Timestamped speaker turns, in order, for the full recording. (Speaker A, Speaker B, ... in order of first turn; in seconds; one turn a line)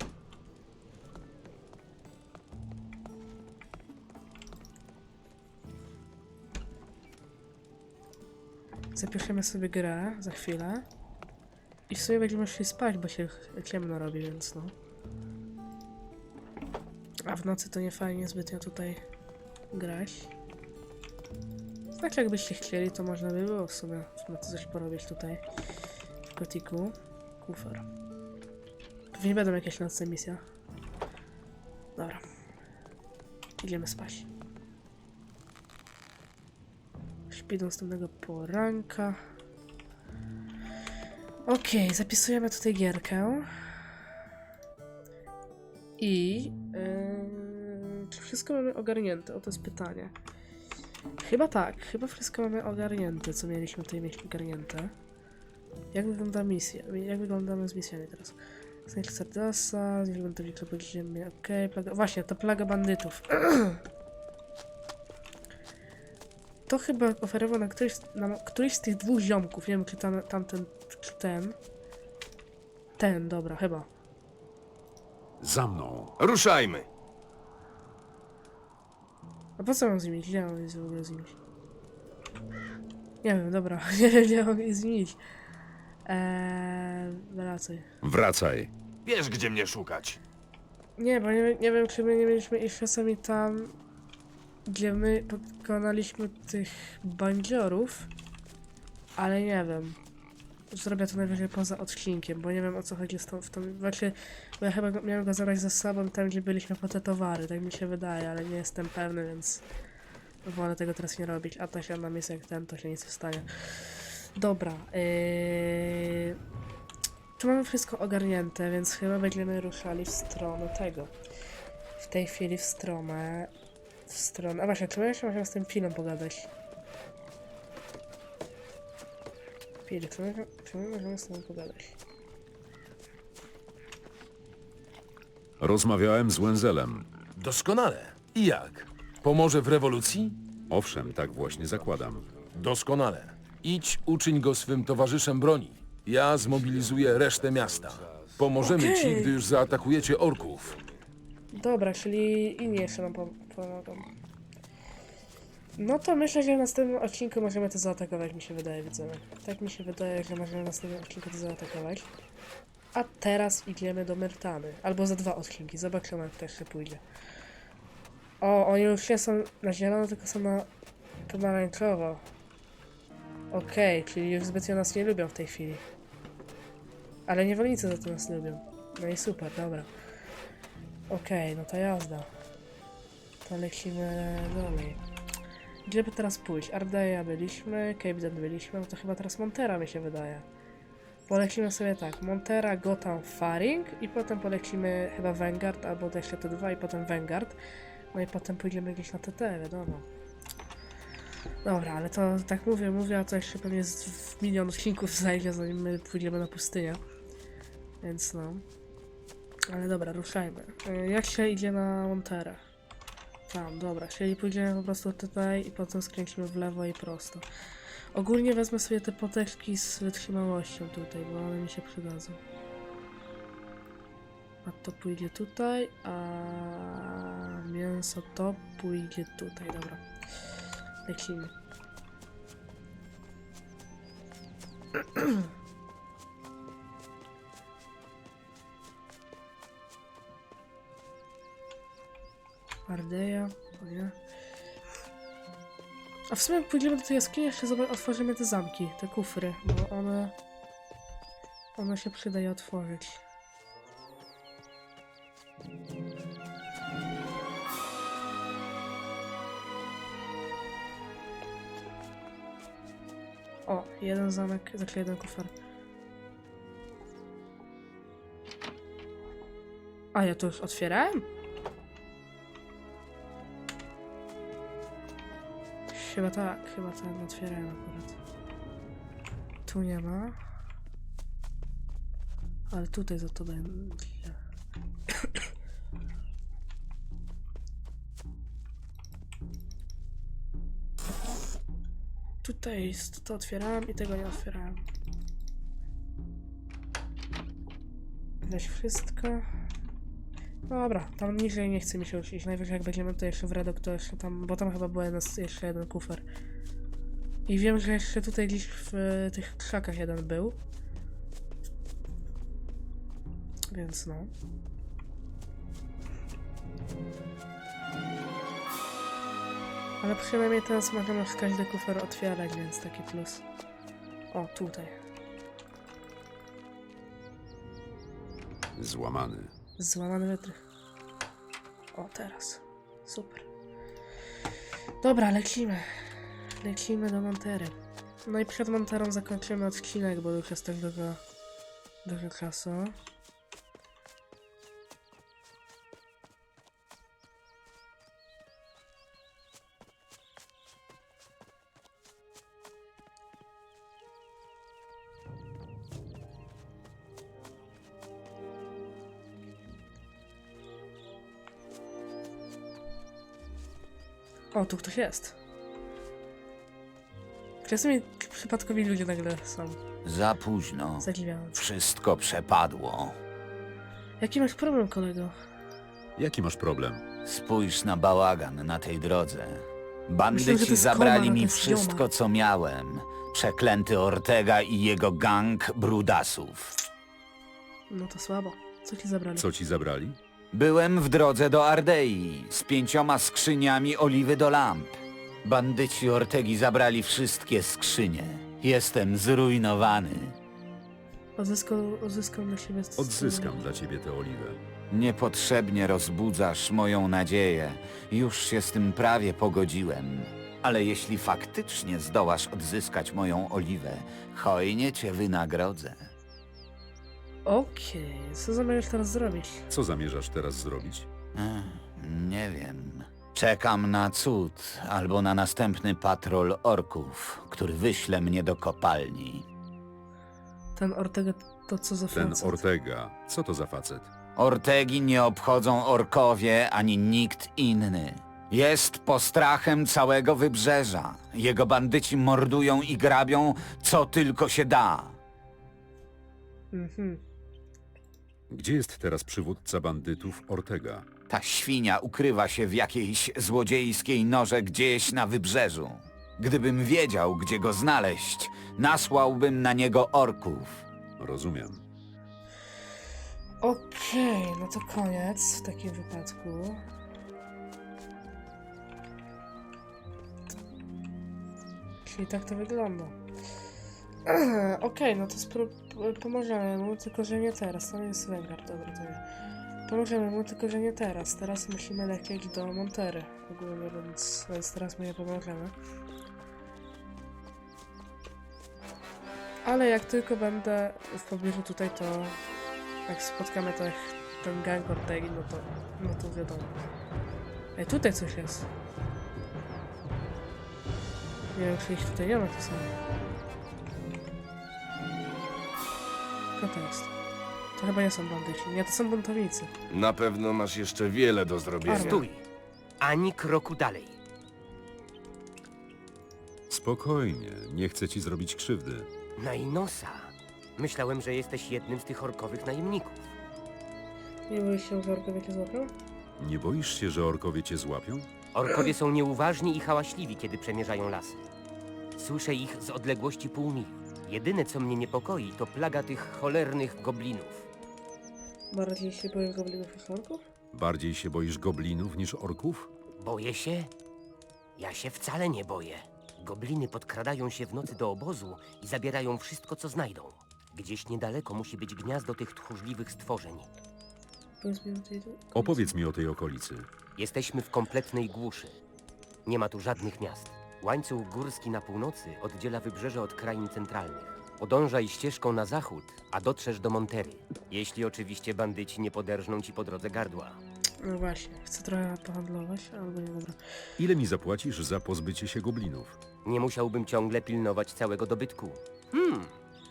Speaker A: 8.9-10.8
Speaker A: 11.9-14.7
Speaker A: 17.2-19.0
Speaker A: 19.7-20.3
Speaker A: 22.0-25.4
Speaker A: 26.2-27.9
Speaker A: 29.1-30.4
Speaker A: 31.9-32.2
Speaker A: 33.6-34.3
Speaker A: 37.3-39.2
Speaker A: 41.5-43.7
Speaker A: 46.0-50.1
Speaker A: 51.2-54.9
Speaker A: 55.9-63.8
Speaker A: 66.7-71.6
Speaker A: 73.0-73.9
Speaker B: 75.4-76.1
Speaker C: 76.2-76.9
Speaker A: 79.6-81.4
Speaker A: 83.2-85.2
Speaker A: 86.0-87.8
Speaker B: 88.0-88.7
Speaker C: 89.0-90.2
Speaker A: 91.0-93.7
Speaker A: 94.7-98.1
Speaker A: 99.2-100.0
Speaker A: 100.7-109.6
Speaker A: 110.4-116.4
Speaker A: 117.4-121.1
Speaker A: 122.0-123.5
Speaker A: 124.1-126.5
Speaker A: 129.9-132.0
Speaker B: 135.6-137.1
Speaker D: 137.3-140.4
Speaker B: 140.7-142.2
Speaker C: 140.9-142.5
Speaker D: 142.5-150.8
Speaker C: 146.3-148.7
Speaker A: 148.6-149.4
Speaker C: 149.2-151.0
Speaker A: 151.5-154.1
Speaker A: 155.8-162.1
Speaker A: 162.9-167.0
Speaker A: 168.4-170.7
Speaker A: 171.3-172.2
Speaker A: 173.5-175.8
Speaker A: 177.3-179.9
Speaker A: 181.1-182.3
Speaker A: 183.4-185.0
Speaker A: 185.8-190.4
Speaker A: 191.3-197.6
Speaker A: 198.1-200.1
Speaker A: 201.6-207.0
Speaker A: 208.0-208.6
Speaker A: 209.7-212.6
Speaker A: 213.5-217.4
Speaker A: 218.1-222.4
Speaker A: 224.6-230.0
Speaker A: 231.1-231.5
Speaker A: 235.1-235.4
Speaker A: 242.9-244.1
Speaker A: 246.3-250.3
Speaker A: 251.8-253.2
Speaker A: 263.7-265.5
Speaker A: 270.1-271.3
Speaker A: 275.9-278.2
Speaker A: 279.6-280.4
Speaker A: 282.7-284.4
Speaker A: 285.1-285.4
Speaker A: 292.4-294.8
Speaker A: 298.4-299.5
Speaker A: 300.7-306.2
Speaker A: 307.5-310.6
Speaker A: 313.7-314.3
Speaker A: 320.0-323.4
Speaker A: 324.3-324.9
Speaker B: 328.8-329.5
Speaker A: 329.8-330.6
Speaker A: 331.9-333.5
Speaker A: 335.0-337.7
Speaker A: 338.2-341.2
Speaker A: 342.0-342.9
Speaker A: 364.5-365.3
Speaker A: 367.6-369.8
Speaker E: 370.0-373.2
Speaker A: 371.0-371.6
Speaker A: 374.2-375.3
Speaker B: 376.2-377.0
Speaker E: 377.2-386.7
Speaker A: 380.3-382.1
Speaker A: 387.9-389.5
Speaker B: 389.4-390.2
Speaker E: 390.5-400.4
Speaker A: 401.4-403.6
Speaker B: 403.0-404.6
Speaker E: 404.9-416.1
Speaker A: 417.4-419.6
Speaker B: 419.7-421.1
Speaker E: 421.3-429.4
Speaker A: 430.8-432.6
Speaker B: 432.1-434.1
Speaker E: 434.4-445.2
Speaker A: 446.7-447.2
Speaker B: 448.5-451.1
Speaker E: 451.3-460.8
Speaker B: 461.2-461.8
Speaker A: 463.6-466.8
Speaker A: 472.0-473.2
Speaker A: 474.2-479.2
Speaker A: 479.9-485.7
Speaker A: 489.6-492.4
Speaker A: 493.1-496.8
Speaker A: 497.8-498.7
Speaker A: 501.5-502.9
Speaker A: 506.6-507.1
Speaker A: 507.8-509.7
Speaker C: 509.9-512.2
Speaker A: 511.8-512.3
Speaker F: 511.9-512.4
Speaker F: 513.0-514.2
Speaker B: 516.7-519.1
Speaker F: 519.4-523.3
Speaker A: 524.5-525.9
Speaker B: 526.4-528.3
Speaker F: 528.5-531.4
Speaker F: 532.1-537.6
Speaker A: 538.7-540.4
Speaker B: 540.7-542.9
Speaker F: 543.2-543.9
Speaker F: 544.8-553.7
Speaker A: 554.6-555.9
Speaker B: 555.5-556.9
Speaker F: 557.2-558.8
Speaker F: 559.5-570.6
Speaker A: 571.0-573.6
Speaker B: 574.0-576.2
Speaker F: 576.4-579.5